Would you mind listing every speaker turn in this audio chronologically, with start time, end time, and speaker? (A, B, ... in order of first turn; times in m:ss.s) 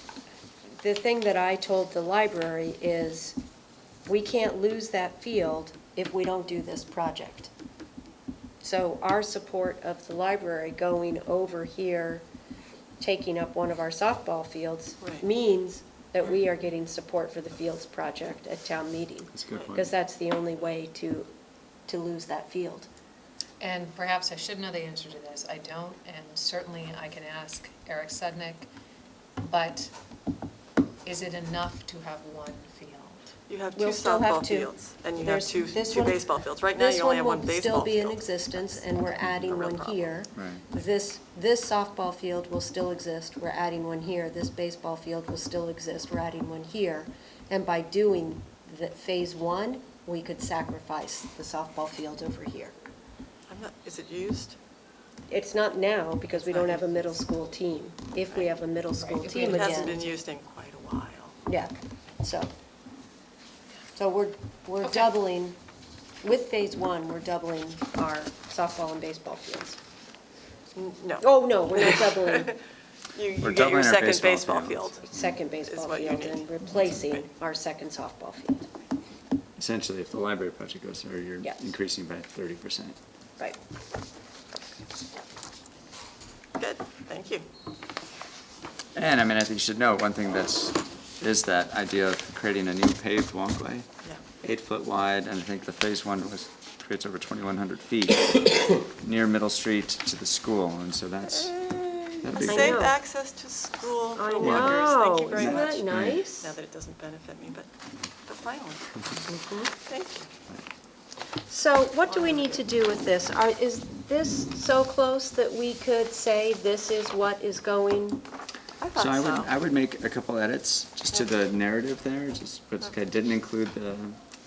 0:00.8-0:03.4 A
0:04.1-0:07.5 A
0:08.6-0:12.3 A
0:13.0-0:21.3 A
0:19.3-0:19.9 B
0:21.9-0:22.9 A
0:23.6-0:28.7 C
0:29.4-0:29.9 C
0:31.0-0:33.3 C
0:33.5-0:40.1 D
0:33.8-0:52.7 A
0:40.3-0:40.6 B
0:53.5-0:54.6 D
0:55.3-1:00.1 A
0:56.4-0:56.8 D
0:59.0-1:00.0 C
0:59.4-1:01.4 D
1:01.4-1:02.5 A
1:04.0-1:05.6 A
1:06.2-1:09.8 A
1:10.8-1:12.6 D
1:11.2-1:12.6 A
1:13.1-1:15.0 D
1:13.4-1:15.4 B
1:15.1-1:18.7 A
1:15.6-1:17.3 D
1:19.6-1:23.0 B
1:26.6-1:27.5 D
1:29.0-1:33.9 B
1:34.4-1:42.9 B
1:41.5-1:47.7 D
1:42.4-1:43.0 A
1:44.2-1:46.5 A
1:44.4-1:46.2 B
1:48.2-1:48.9 D
1:49.3-1:49.7 A
1:49.9-1:50.3 D
1:51.5-1:58.2 A
1:52.1-1:52.6 D
1:58.8-1:59.5 D
1:59.0-2:04.2 B